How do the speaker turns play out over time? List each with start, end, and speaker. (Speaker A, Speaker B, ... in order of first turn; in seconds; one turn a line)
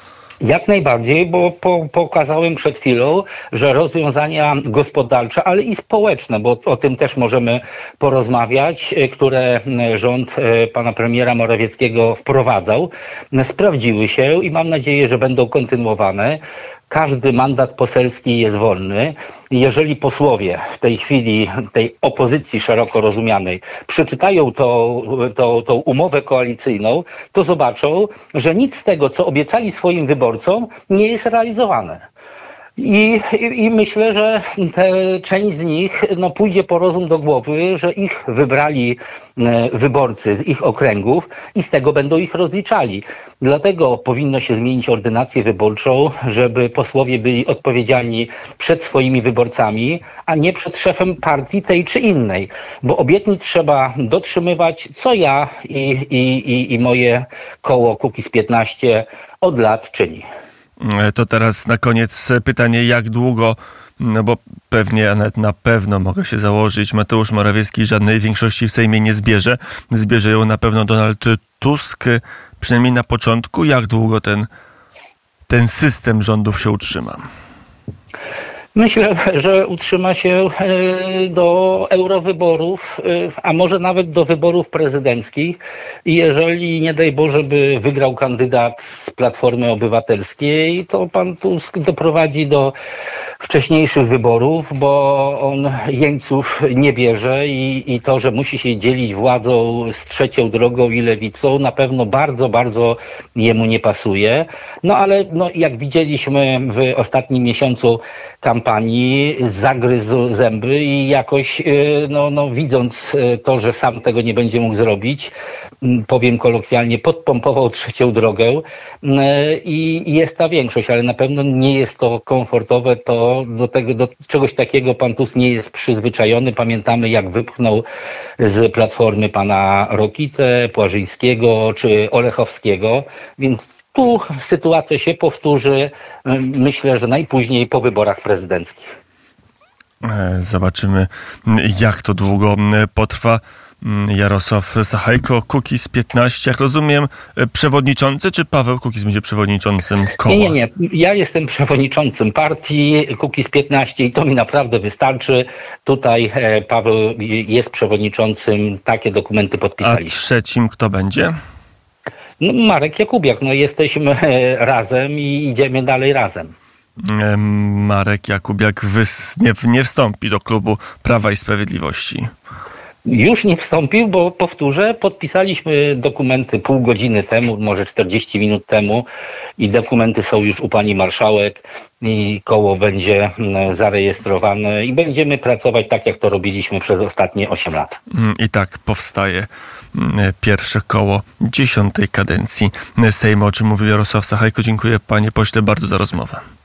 Speaker A: 0.4-32.0
Speaker A: 32.8-60.3
Speaker B: 60.8-74.5
Speaker B: 75.5-77.2
Speaker A: 78.8-92.8
Speaker A: 93.4-127.8
Speaker A: 128.4-139.0
Speaker B: 140.0-150.6
Speaker A: 150.3-160.2
Speaker B: 159.8-161.3
Speaker A: 162.4-166.6
Speaker B: 167.1-172.3
Speaker A: 173.1-179.1
Speaker A: 179.6-188.0
Speaker B: 188.1-196.4